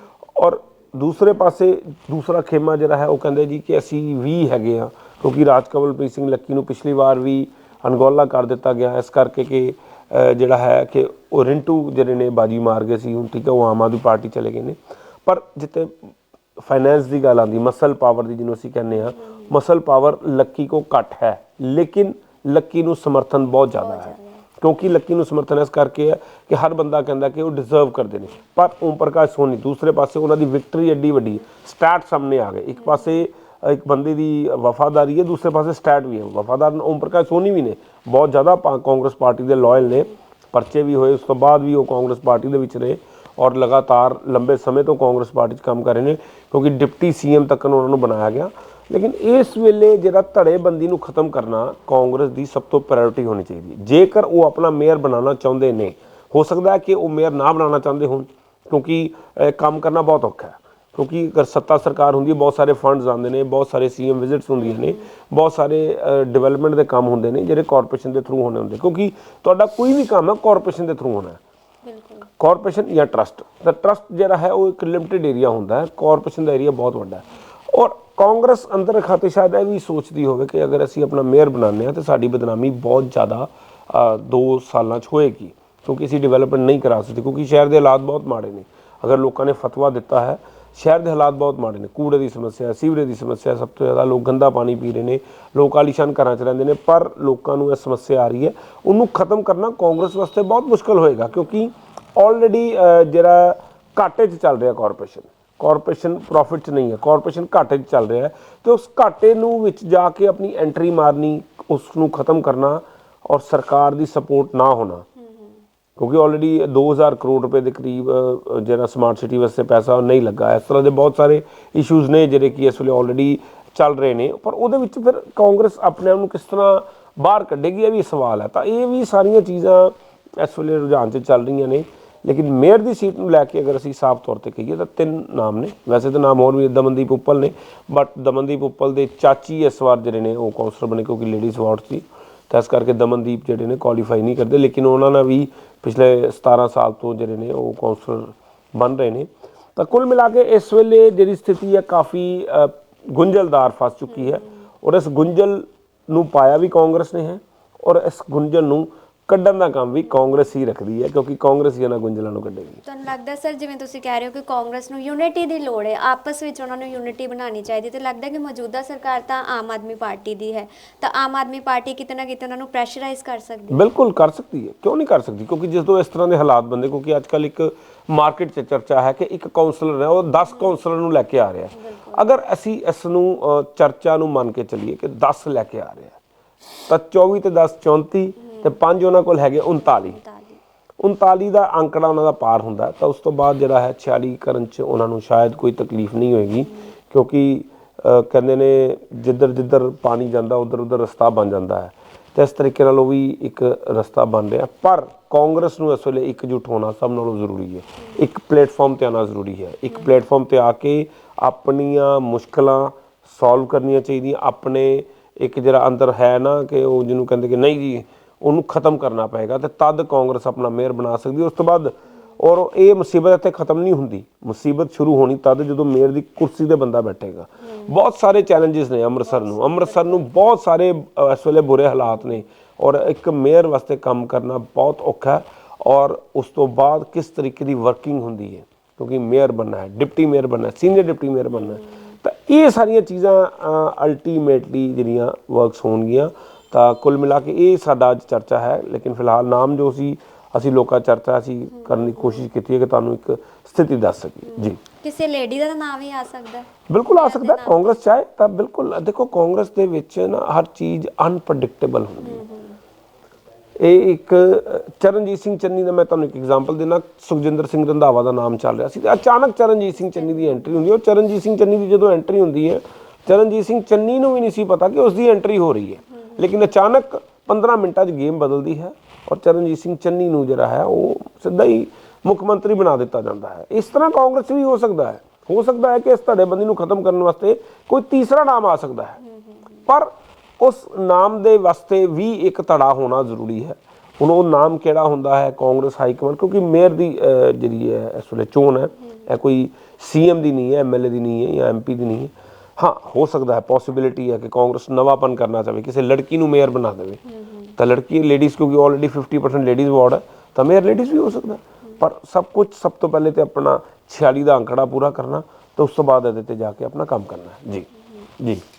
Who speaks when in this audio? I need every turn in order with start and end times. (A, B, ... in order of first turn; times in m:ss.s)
0:00.4-1:11.4 A
0:19.2-0:19.5 B
0:23.8-0:24.4 B
1:11.8-1:12.3 B
1:12.4-1:55.1 A
1:55.2-1:55.5 B
1:56.0-2:42.8 A
2:42.8-2:53.8 B
2:53.7-3:06.2 A
3:01.7-3:02.2 B
3:06.9-3:10.2 A
3:08.4-3:08.8 B
3:09.8-3:10.6 B
3:11.0-4:14.8 A
3:49.4-3:50.2 B
4:11.8-4:12.5 B
4:14.4-4:17.8 B
4:16.9-4:22.4 A
4:22.2-4:22.8 B
4:23.8-4:49.2 A
4:49.9-5:07.2 A
5:07.3-5:07.8 B
5:07.8-5:18.6 A